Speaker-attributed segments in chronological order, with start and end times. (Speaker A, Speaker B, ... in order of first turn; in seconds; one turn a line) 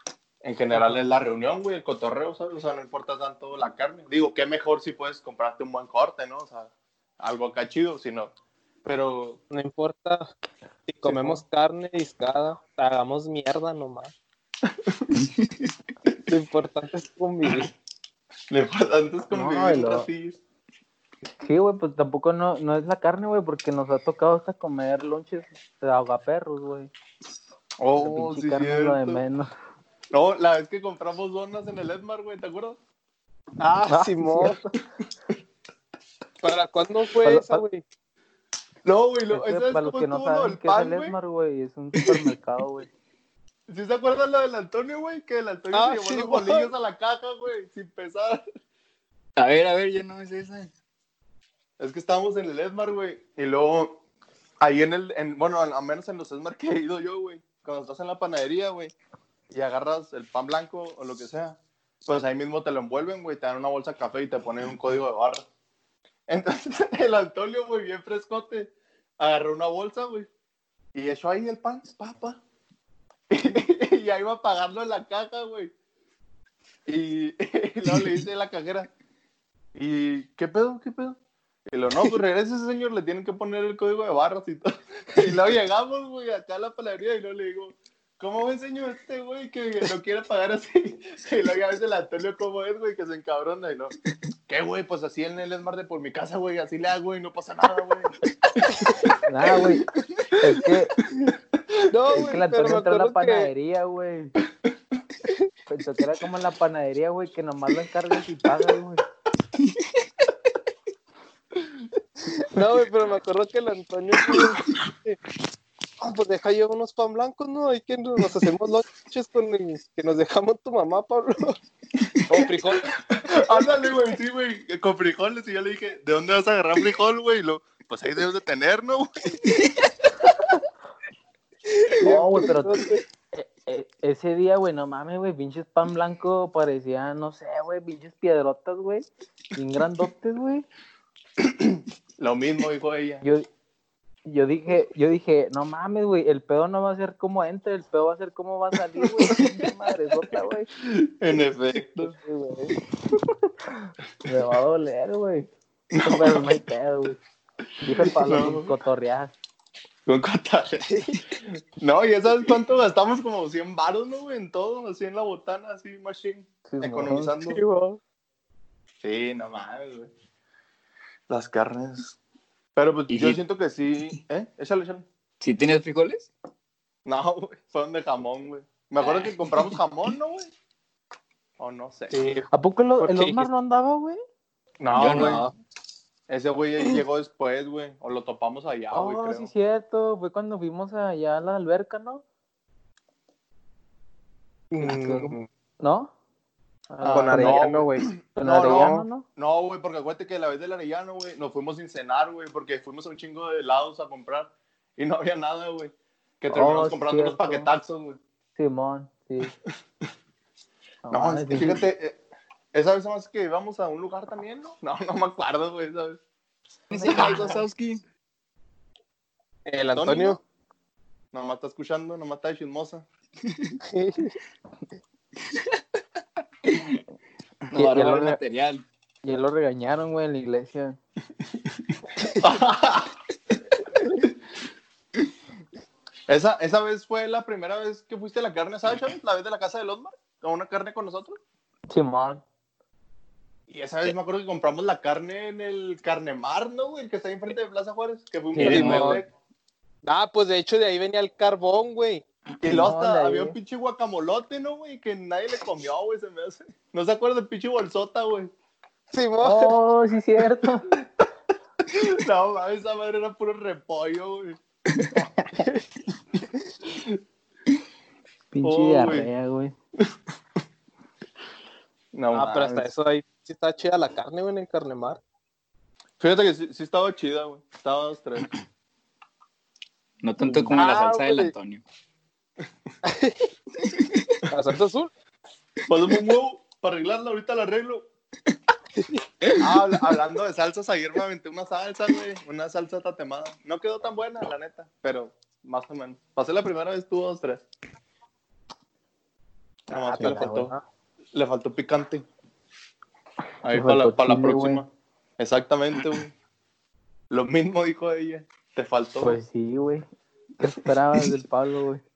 Speaker A: 0.4-8.3
Speaker A: 8.8-9.4
Speaker B: 9.5-10.3
Speaker B: 10.9-14.1
Speaker C: 11.1-11.4
Speaker A: 14.7-15.2
Speaker B: 16.3-17.7
Speaker A: 18.5-20.4
Speaker C: 19.3-20.1
Speaker C: 21.4-26.9
Speaker A: 27.8-29.2
Speaker C: 28.0-29.5
Speaker A: 30.1-32.8
Speaker B: 33.6-34.6
Speaker C: 33.9-34.8
Speaker B: 36.4-37.8
Speaker C: 37.2-37.6
Speaker A: 38.9-41.2
Speaker C: 39.3-42.9
Speaker A: 43.7-48.4
Speaker B: 45.7-46.7
Speaker D: 49.4-50.7
Speaker A: 51.8-54.0
Speaker A: 54.6-58.9
Speaker A: 59.5-65.5
Speaker A: 66.3-70.3
Speaker A: 71.0-72.4
Speaker A: 73.3-75.7
Speaker A: 76.9-78.9
Speaker A: 79.8-81.2
Speaker A: 81.7-94.0
Speaker A: 94.5-99.1
Speaker B: 98.7-99.2
Speaker C: 99.3-99.8
Speaker A: 100.2-101.3
Speaker C: 100.4-101.0
Speaker B: 101.9-103.5
Speaker C: 102.1-104.3
Speaker C: 105.7-109.0
Speaker B: 112.5-115.2
Speaker B: 116.0-121.6
Speaker B: 122.3-123.0
Speaker A: 123.2-129.3
Speaker B: 131.8-133.0
Speaker C: 132.0-140.7
Speaker A: 141.4-143.2
Speaker C: 144.3-150.7
Speaker A: 150.8-152.2
Speaker B: 152.0-152.8
Speaker C: 153.2-157.2
Speaker A: 155.9-156.5
Speaker C: 157.8-159.3
Speaker A: 157.9-158.7
Speaker A: 160.1-160.9
Speaker B: 160.9-161.2
Speaker A: 161.4-167.6
Speaker C: 166.7-167.3
Speaker B: 167.5-168.0
Speaker A: 169.0-170.1
Speaker A: 171.3-172.2
Speaker A: 172.8-175.1
Speaker D: 173.1-173.4
Speaker D: 175.4-176.3
Speaker A: 177.1-180.5
Speaker A: 181.6-182.2
Speaker B: 182.1-182.5
Speaker C: 182.5-184.2
Speaker B: 183.0-183.5
Speaker A: 184.8-185.5
Speaker D: 184.9-185.5
Speaker A: 186.3-189.5
Speaker C: 188.9-192.2
Speaker B: 194.7-195.5
Speaker C: 194.8-196.1
Speaker C: 196.9-199.3
Speaker A: 197.0-208.2
Speaker B: 197.1-198.1
Speaker B: 198.6-199.1
Speaker C: 206.5-207.7
Speaker C: 208.6-209.5
Speaker C: 211.1-211.8
Speaker A: 211.1-212.2
Speaker A: 212.7-216.2
Speaker D: 216.9-218.0
Speaker C: 216.9-217.4
Speaker A: 217.0-217.6
Speaker B: 219.7-220.4
Speaker A: 219.9-220.4
Speaker A: 221.3-223.1
Speaker D: 223.5-223.8
Speaker B: 223.8-224.4
Speaker D: 226.7-227.0
Speaker D: 227.7-228.8
Speaker C: 227.7-228.4
Speaker C: 229.2-231.0
Speaker A: 232.4-233.2
Speaker A: 236.3-241.4
Speaker C: 241.9-242.4
Speaker A: 243.7-249.3
Speaker D: 248.6-249.2
Speaker B: 248.6-249.2
Speaker B: 250.1-252.2
Speaker A: 252.6-258.5
Speaker C: 252.6-253.6
Speaker B: 259.1-259.8
Speaker C: 259.4-260.9
Speaker A: 260.9-261.3
Speaker A: 261.8-264.6
Speaker C: 265.1-265.6
Speaker B: 265.6-265.8
Speaker A: 266.9-267.2
Speaker C: 268.5-269.7
Speaker A: 268.6-269.3
Speaker A: 272.1-272.9
Speaker B: 272.3-275.2
Speaker A: 276.2-278.5
Speaker D: 280.2-281.8
Speaker B: 280.5-281.5
Speaker B: 283.1-283.5
Speaker D: 283.9-284.3
Speaker B: 284.5-285.1
Speaker A: 285.9-288.1
Speaker A: 289.6-297.6
Speaker A: 299.9-300.7
Speaker C: 300.0-300.7
Speaker B: 300.2-300.8
Speaker A: 301.3-302.3
Speaker A: 303.6-304.9
Speaker C: 303.7-304.8
Speaker A: 305.4-306.3
Speaker A: 307.3-309.4
Speaker C: 309.2-310.1
Speaker C: 310.6-312.0